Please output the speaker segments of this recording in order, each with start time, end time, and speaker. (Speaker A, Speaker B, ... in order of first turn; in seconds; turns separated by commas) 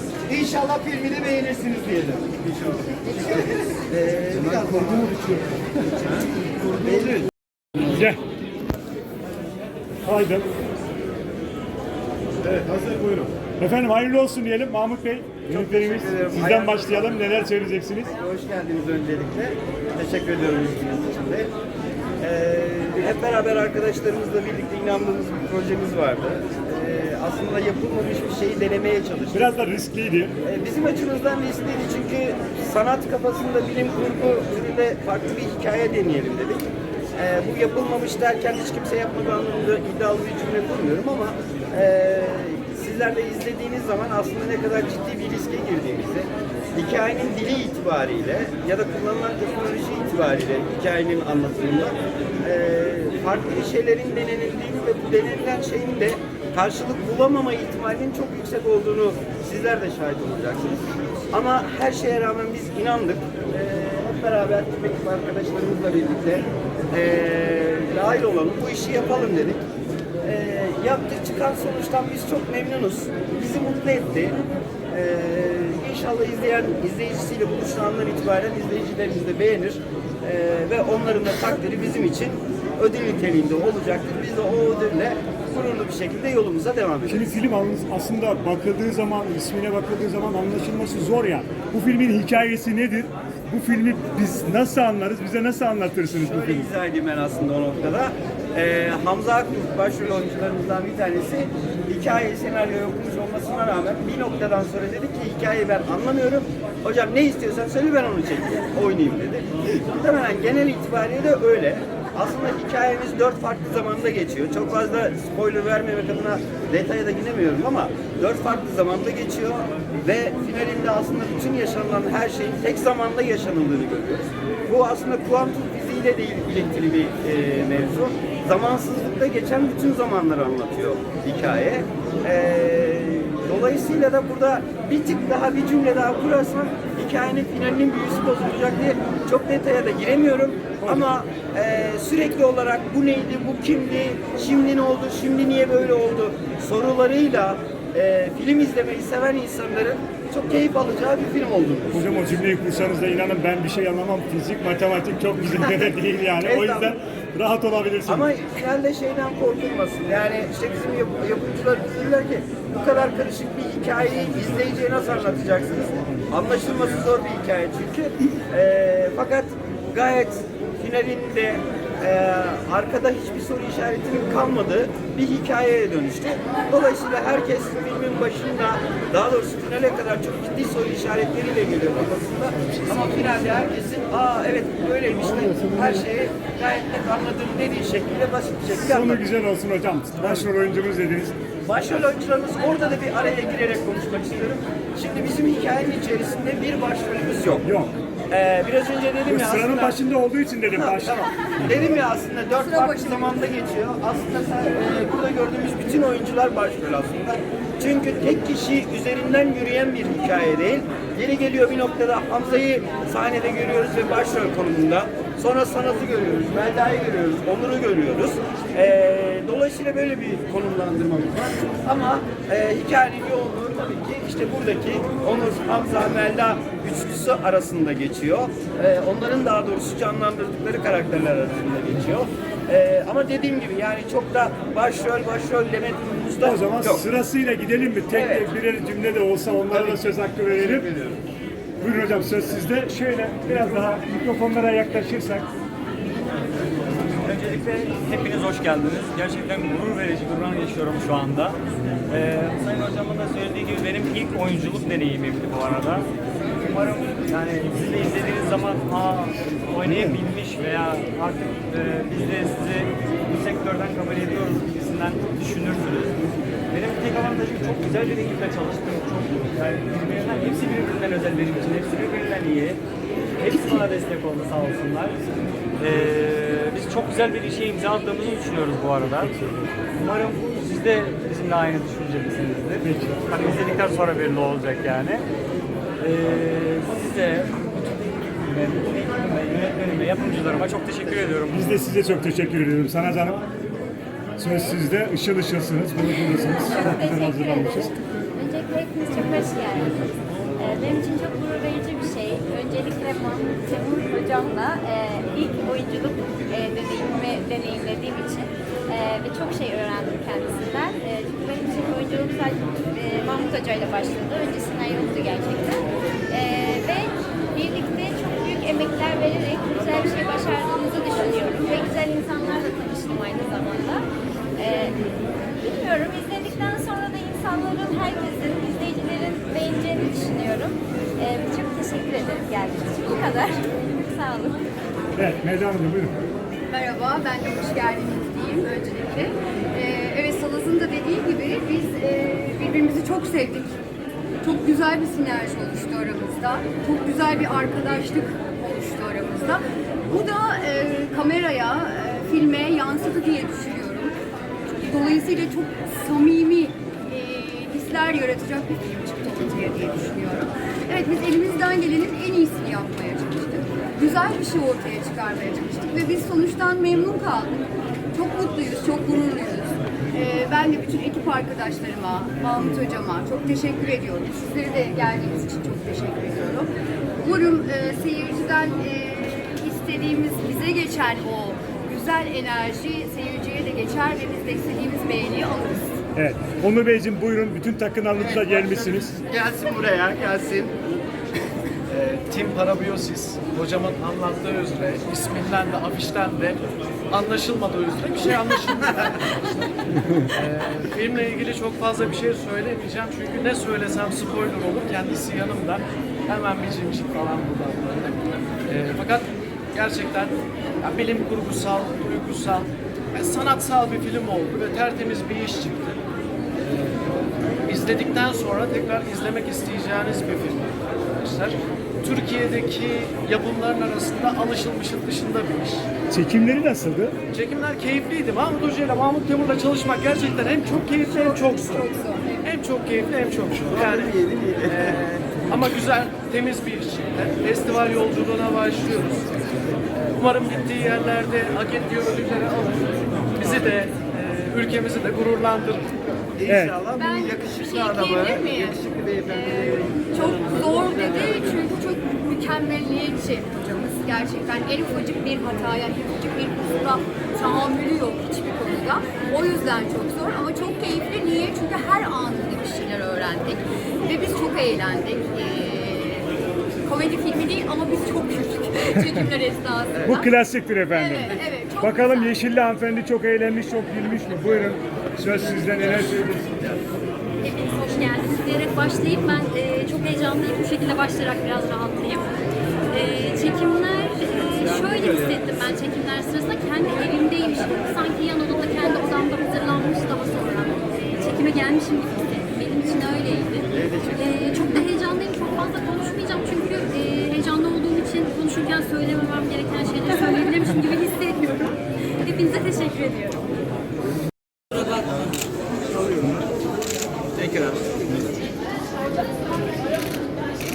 Speaker A: 0.3-5.3, Speaker A: 6.8-7.3, Speaker B: 7.9-8.2, Speaker B: 10.0-10.5, Speaker A: 12.5-13.1, Speaker B: 13.6-18.1, Speaker A: 15.5-17.2, Speaker A: 18.1-21.5, Speaker A: 22.2-29.5, Speaker B: 29.3-30.4, Speaker A: 30.4-69.6, Speaker A: 70.2-74.3, Speaker A: 74.9-87.3, Speaker B: 87.0-96.7, Speaker A: 96.1-152.2, Speaker B: 140.8-141.1, Speaker B: 151.9-158.3, Speaker A: 155.6-156.9, Speaker A: 158.1-189.2, Speaker C: 182.6-183.3, Speaker B: 188.8-191.3, Speaker A: 191.6-197.7, Speaker B: 197.6-197.9, Speaker A: 198.3-200.0, Speaker B: 199.3-201.3, Speaker A: 200.7-237.0, Speaker D: 202.6-203.4, Speaker B: 236.4-240.9, Speaker A: 238.1-238.5, Speaker A: 239.7-241.2, Speaker B: 241.8-245.5, Speaker E: 247.2-256.1, Speaker E: 256.6-266.1, Speaker B: 259.8-260.2, Speaker E: 266.7-272.8, Speaker E: 273.4-275.2, Speaker E: 275.8-279.3, Speaker E: 279.9-285.2, Speaker B: 282.8-283.4, Speaker E: 286.0-292.0, Speaker B: 291.5-293.4, Speaker B: 294.4-297.9, Speaker F: 294.4-294.8, Speaker F: 296.4-315.8, Speaker F: 316.3-324.0, Speaker F: 324.6-324.9, Speaker F: 325.6-334.6, Speaker B: 335.1-336.1, Speaker D: 336.7-343.7, Speaker D: 344.4-354.1, Speaker D: 354.7-386.0, Speaker B: 386.1-389.1, Speaker A: 388.1-390.9, Speaker C: 391.9-396.6, Speaker C: 397.1-399.7, Speaker C: 400.3-416.0, Speaker C: 416.6-417.1, Speaker C: 417.6-425.9, Speaker B: 426.1-427.1, Speaker C: 427.3-431.9, Speaker D: 431.0-432.5, Speaker C: 432.4-434.1, Speaker A: 433.7-435.0, Speaker C: 434.7-445.9, Speaker A: 446.4-451.6, Speaker B: 446.5-446.7, Speaker D: 446.9-466.3, Speaker D: 466.8-470.3, Speaker B: 470.0-476.6, Speaker D: 470.9-472.4, Speaker G: 477.4-503.4, Speaker A: 484.3-485.5, Speaker A: 493.7-494.3, Speaker A: 507.4-507.8